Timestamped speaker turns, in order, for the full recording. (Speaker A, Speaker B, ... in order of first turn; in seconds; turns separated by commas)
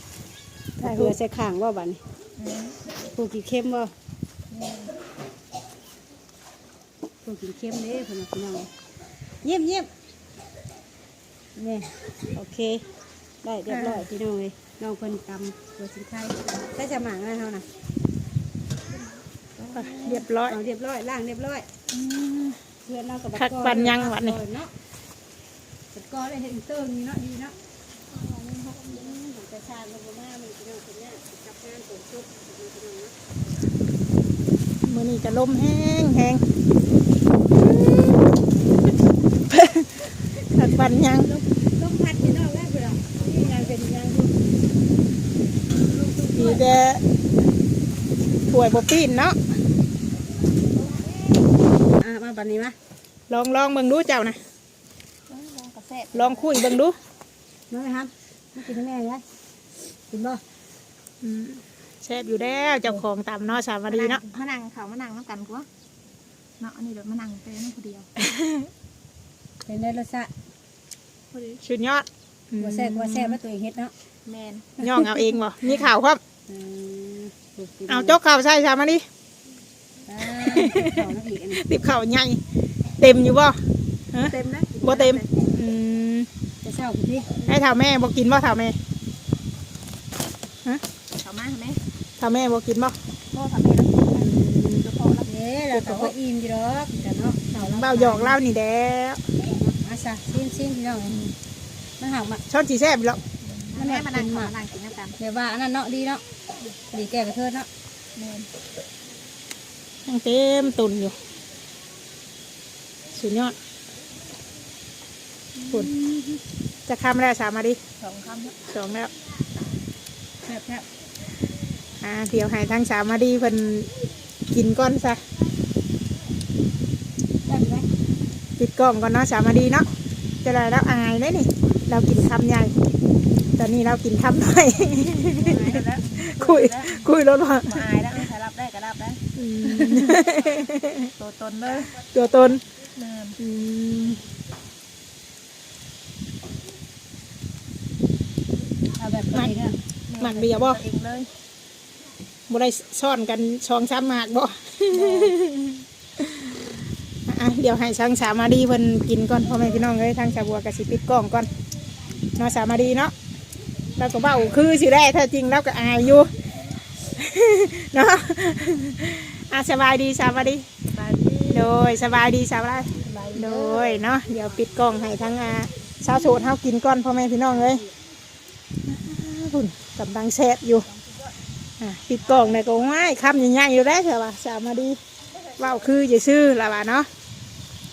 Speaker A: 0.8-1.1, Speaker B: 0.8-2.0, Speaker C: 2.4-2.8, Speaker B: 3.1-3.9, Speaker C: 4.5-4.9, Speaker B: 7.2-8.7, Speaker B: 9.4-9.9, Speaker B: 11.6-12.8, Speaker B: 13.4-17.6, Speaker A: 13.7-14.1, Speaker B: 19.6-21.7, Speaker A: 19.7-20.6, Speaker A: 21.9-22.6, Speaker B: 22.8-24.7, Speaker A: 23.4-24.4, Speaker B: 25.9-27.5, Speaker C: 28.1-29.2, Speaker B: 28.9-33.2, Speaker A: 34.8-36.4, Speaker A: 37.5-38.2, Speaker A: 39.5-41.3, Speaker B: 41.1-44.4, Speaker B: 45.8-46.7, Speaker A: 46.3-47.0, Speaker A: 48.5-49.4, Speaker B: 52.0-52.8, Speaker A: 53.3-54.4, Speaker C: 55.3-56.5, Speaker A: 56.1-57.0, Speaker B: 57.7-59.2, Speaker B: 60.1-60.4, Speaker A: 61.2-64.2, Speaker C: 63.9-65.7, Speaker C: 66.6-68.1, Speaker A: 68.2-68.7, Speaker B: 69.7-70.3, Speaker C: 71.3-71.6, Speaker A: 71.6-73.4, Speaker B: 72.6-73.9, Speaker C: 74.2-74.7, Speaker A: 74.8-76.2, Speaker B: 74.8-75.3, Speaker B: 76.5-78.2, Speaker A: 77.9-79.0, Speaker B: 80.1-81.6, Speaker A: 80.4-81.1, Speaker A: 81.6-82.4, Speaker A: 83.0-83.6, Speaker A: 84.1-86.3, Speaker C: 84.2-85.3, Speaker B: 86.6-87.4, Speaker A: 87.5-88.8, Speaker C: 91.2-91.8, Speaker A: 92.2-93.0, Speaker C: 93.3-95.3, Speaker A: 94.2-94.8, Speaker B: 95.2-98.4, Speaker A: 95.7-96.1, Speaker A: 97.5-99.2, Speaker B: 99.3-101.3, Speaker B: 102.0-102.4, Speaker A: 102.5-103.2, Speaker C: 103.4-105.2, Speaker B: 103.8-104.5, Speaker B: 105.2-106.2, Speaker B: 106.8-107.7, Speaker C: 108.1-108.5, Speaker A: 110.1-111.2, Speaker A: 113.1-113.5, Speaker B: 115.6-116.4, Speaker A: 116.9-117.8, Speaker C: 118.0-118.6, Speaker A: 118.7-119.1, Speaker B: 120.5-120.8, Speaker A: 122.0-123.9, Speaker A: 124.5-125.2, Speaker B: 127.5-127.9, Speaker A: 128.6-129.8, Speaker A: 130.4-132.7, Speaker A: 133.6-137.8, Speaker C: 135.3-140.3, Speaker A: 139.3-141.1, Speaker C: 140.9-142.0, Speaker A: 142.0-142.6, Speaker C: 142.8-143.4, Speaker A: 143.4-144.2, Speaker B: 149.0-149.8, Speaker A: 149.3-149.6, Speaker C: 150.1-151.3, Speaker A: 150.2-150.8, Speaker A: 152.5-156.5, Speaker B: 154.9-155.3, Speaker A: 157.3-161.5, Speaker A: 162.3-163.1, Speaker A: 164.0-166.3, Speaker A: 167.0-170.6, Speaker C: 170.7-171.7, Speaker A: 171.5-177.8, Speaker C: 173.0-174.0, Speaker A: 178.8-180.9, Speaker C: 180.9-181.3, Speaker A: 181.8-185.0, Speaker A: 185.6-187.1